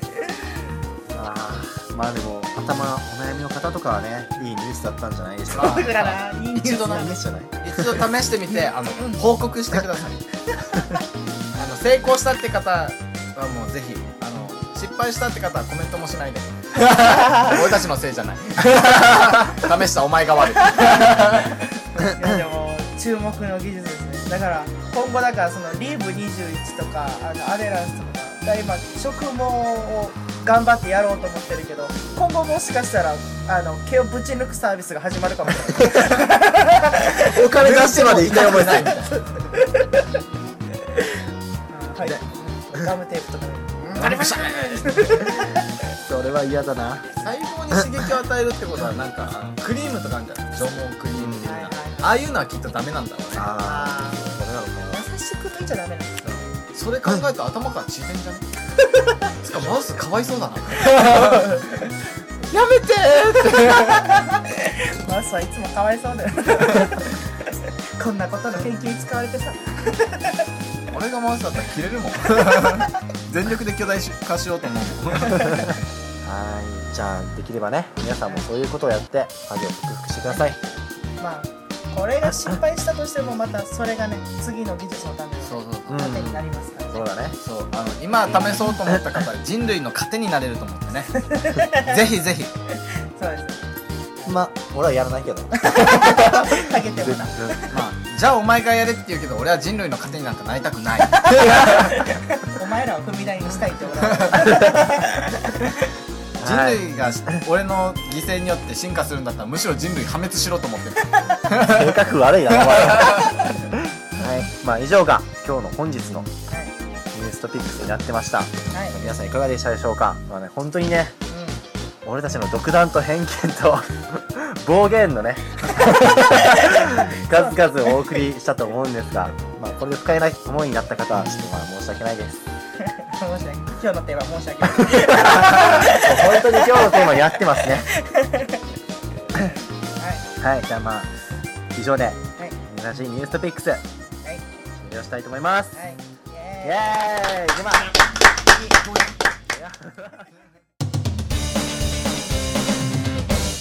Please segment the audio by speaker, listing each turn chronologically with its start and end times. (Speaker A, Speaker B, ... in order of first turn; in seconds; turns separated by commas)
Speaker A: 1.1-7.9, Speaker B: 5.5-10.2, Speaker C: 5.5-7.2, Speaker B: 11.6-21.6, Speaker C: 17.1-17.4, Speaker C: 20.8-21.1, Speaker A: 22.0-22.4, Speaker C: 22.0-37.4, Speaker A: 35.8-36.3, Speaker A: 37.2-39.0, Speaker B: 37.4-39.2, Speaker C: 38.4-40.0, Speaker C: 41.7-45.8, Speaker B: 43.9-45.4, Speaker A: 46.0-48.1, Speaker B: 47.2-53.5, Speaker A: 51.1-51.6, Speaker C: 51.4-52.2, Speaker A: 53.3-55.0, Speaker C: 53.5-56.4, Speaker B: 56.2-58.5, Speaker B: 59.2-61.6, Speaker C: 61.0-61.8, Speaker B: 62.5-64.2, Speaker C: 63.9-67.4, Speaker C: 68.0-70.4, Speaker B: 70.9-75.8, Speaker A: 76.2-80.6, Speaker C: 81.2-87.1, Speaker B: 85.5-86.2, Speaker A: 85.9-87.4, Speaker B: 87.4-92.5, Speaker C: 91.2-92.0, Speaker C: 92.7-93.7, Speaker A: 94.3-97.8, Speaker C: 95.6-97.8, Speaker B: 97.7-102.0, Speaker C: 101.3-105.6, Speaker B: 104.0-104.6, Speaker A: 104.6-104.9, Speaker A: 106.4-107.4, Speaker B: 106.4-112.0, Speaker A: 111.6-116.3, Speaker B: 112.6-113.4, Speaker A: 117.1-121.2, Speaker C: 118.7-119.1, Speaker C: 121.3-121.6, Speaker A: 122.0-132.4, Speaker C: 126.2-127.6, Speaker C: 132.8-138.6, Speaker A: 134.7-137.9, Speaker C: 140.0-140.3, Speaker A: 140.4-141.1, Speaker A: 141.7-143.8, Speaker A: 144.8-145.8, Speaker C: 145.8-147.0, Speaker A: 146.6-150.3